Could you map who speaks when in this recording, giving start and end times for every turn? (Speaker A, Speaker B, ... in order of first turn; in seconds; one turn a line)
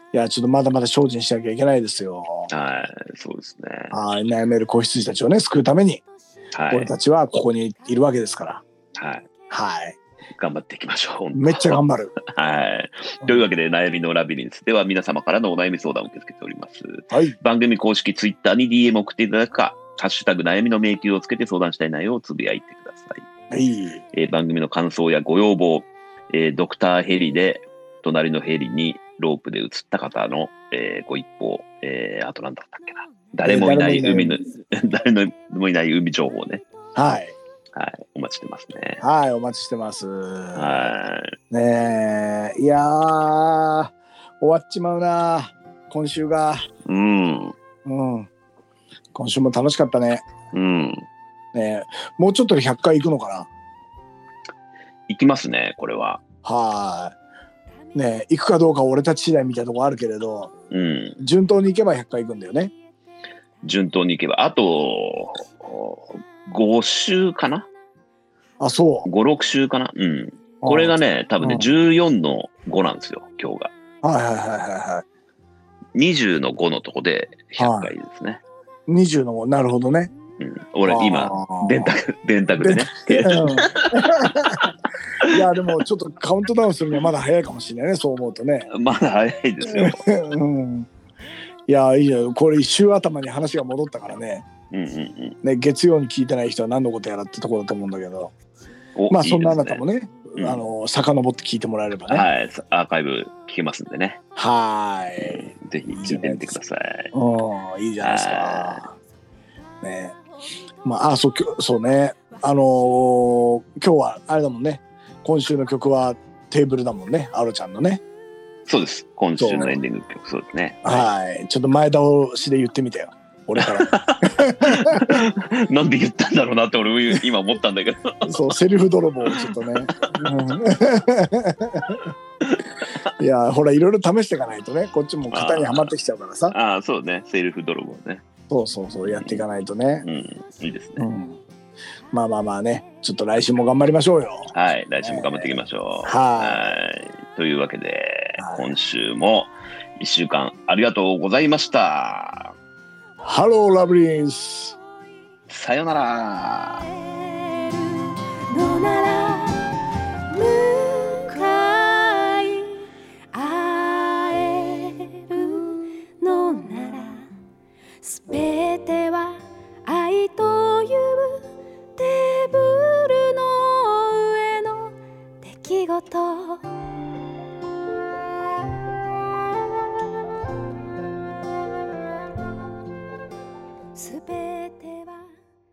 Speaker A: 0.1-2.5
Speaker B: 2.5-4.0
Speaker A: 3.9-6.0
Speaker B: 6.5-6.9
Speaker A: 6.7-8.6
Speaker B: 9.0-9.3
Speaker A: 9.5-10.0
Speaker B: 10.4-11.8
Speaker A: 11.3-12.2
Speaker B: 12.3-23.3
Speaker A: 17.1-17.4
Speaker A: 23.5-24.0
Speaker B: 24.1-36.6
Speaker A: 33.4-34.4
Speaker A: 37.0-37.4
Speaker B: 37.8-39.0
Speaker A: 39.0-40.9
Speaker B: 40.5-41.4
Speaker A: 41.5-46.7
Speaker B: 46.9-47.5
Speaker A: 47.8-48.3
Speaker A: 49.1-50.2
Speaker B: 50.5-51.1
Speaker A: 51.5-53.5
Speaker B: 55.1-56.2
Speaker A: 56.4-57.2
Speaker A: 57.9-60.5
Speaker B: 60.7-61.2
Speaker A: 61.2-62.7
Speaker B: 63.6-67.7
Speaker A: 68.6-69.1
Speaker B: 69.0-73.7
Speaker A: 70.6-71.7
Speaker A: 74.0-75.0
Speaker B: 76.0-78.4
Speaker A: 77.6-77.9
Speaker A: 78.9-80.1
Speaker B: 80.4-84.1
Speaker A: 80.8-82.0
Speaker A: 82.6-84.7
Speaker A: 85.2-88.7
Speaker B: 88.7-90.0
Speaker A: 89.6-90.9
Speaker A: 91.7-94.5
Speaker B: 94.7-95.4
Speaker A: 95.4-98.3
Speaker B: 99.0-99.8
Speaker A: 99.1-102.3
Speaker B: 100.4-100.6
Speaker B: 102.1-104.2
Speaker A: 104.4-106.5
Speaker B: 105.2-107.1
Speaker A: 107.1-109.0
Speaker B: 108.0-108.8
Speaker A: 109.8-110.2
Speaker A: 110.8-118.0
Speaker B: 118.7-121.1
Speaker A: 119.4-119.8
Speaker A: 120.8-125.1
Speaker B: 123.6-128.6
Speaker A: 128.2-132.0
Speaker A: 133.2-136.6
Speaker B: 135.3-135.9
Speaker B: 136.5-138.2
Speaker A: 138.5-140.1
Speaker B: 139.1-139.4
Speaker B: 140.0-141.1
Speaker A: 141.0-141.4
Speaker A: 142.1-145.5
Speaker B: 144.5-152.5
Speaker A: 146.0-146.7
Speaker A: 148.4-148.7
Speaker A: 153.2-154.8
Speaker B: 155.5-156.9
Speaker C: 157.6-159.8
Speaker C: 160.3-162.8
Speaker C: 163.3-167.3
Speaker C: 168.0-176.8
Speaker C: 183.9-185.3